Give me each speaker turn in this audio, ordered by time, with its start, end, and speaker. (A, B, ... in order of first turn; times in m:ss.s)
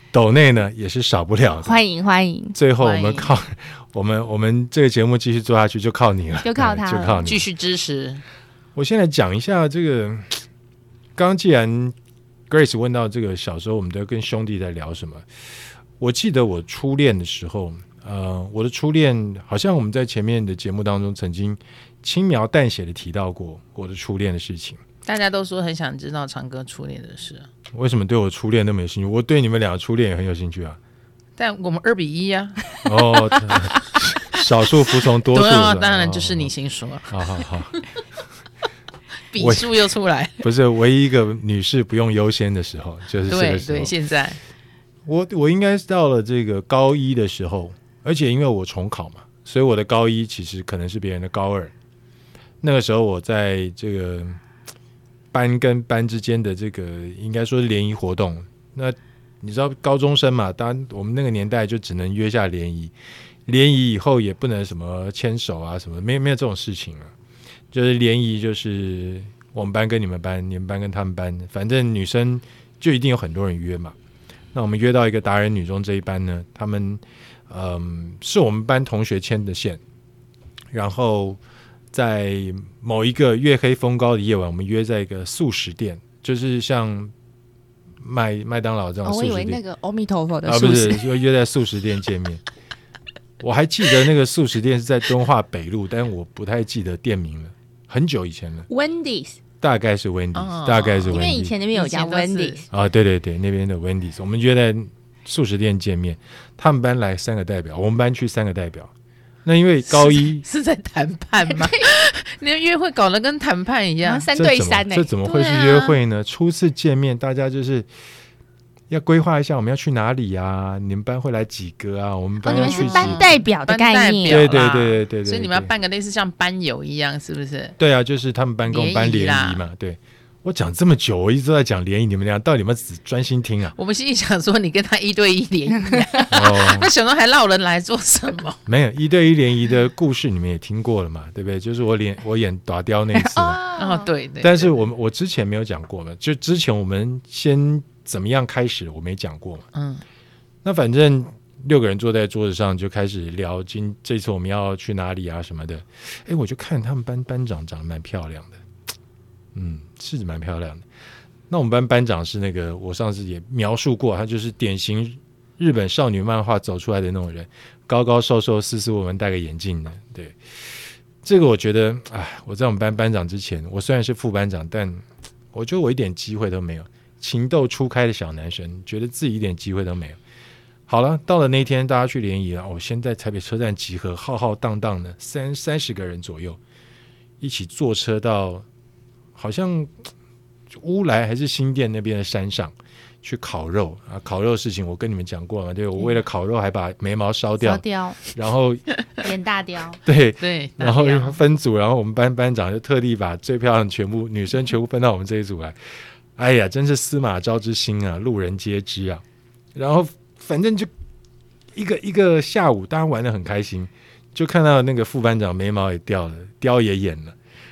0:00.1-0:01.8 A
0:01.6-0:02.6 B
0:02.6-0:07.5 A
0:02.8-0:03.3 C
0:06.4-0:07.2 B
0:07.2-0:08.2 C
0:08.8-0:10.4 A
0:11.2-0:12.0 A
0:12.5-0:15.3 A
0:16.0-0:24.8 A
0:25.1-0:27.5 C
0:27.7-0:30.8 A
0:31.4-0:33.4 C
0:32.8-0:36.5 A
0:34.9-0:37.9 C
0:37.1-0:37.8 A
0:39.3-0:40.5 C
0:39.4-0:39.7 A
0:40.4-0:43.9 A
0:43.3-0:44.4 C
0:45.1-0:51.7 A
0:52.6-0:54.4 A
0:55.3-1:02.9 A
1:03.5-1:07.1 A
1:07.7-1:14.0 A
1:14.5-1:19.8 A
1:20.7-1:21.4 A
1:21.9-1:27.1 A
1:28.0-1:29.6 A
1:29.0-1:31.1 B
1:30.4-1:32.4 A
1:33.4-1:38.7 A
1:38.7-1:39.4 B
1:39.6-1:41.5 A
1:40.4-1:42.7 C
1:41.1-1:42.6 B
1:42.7-1:48.9 A
1:49.4-1:50.4 A
1:49.9-1:54.3 C
1:51.4-1:51.8 B
1:54.0-1:55.1 B
1:54.3-1:57.9 A
1:55.2-1:56.0 C
1:58.9-2:03.3 A
2:02.4-2:04.5 B
2:02.4-2:07.8 C
2:04.3-2:05.7 A
2:07.8-2:13.7 A
2:08.7-2:09.6 C
2:13.8-2:18.6 C
2:15.9-2:16.2 B
2:16.3-2:16.9 A
2:18.7-2:23.6 A
2:23.2-2:24.1 B
2:23.8-2:24.7 C
2:24.4-2:29.6 A
2:29.7-2:30.0 C
2:30.6-2:38.6 A
2:39.6-2:40.8 A
2:41.5-3:00.2 A
3:00.9-3:06.6 A
3:07.4-3:08.7 A
3:09.4-3:09.9 A
3:10.7-3:18.8 A
3:17.6-3:18.2 B
3:19.2-3:20.0 B
3:20.0-3:25.8 A
3:20.4-3:21.4 C
3:26.4-3:29.2 A
3:29.8-3:30.9 A
3:31.8-3:37.4 A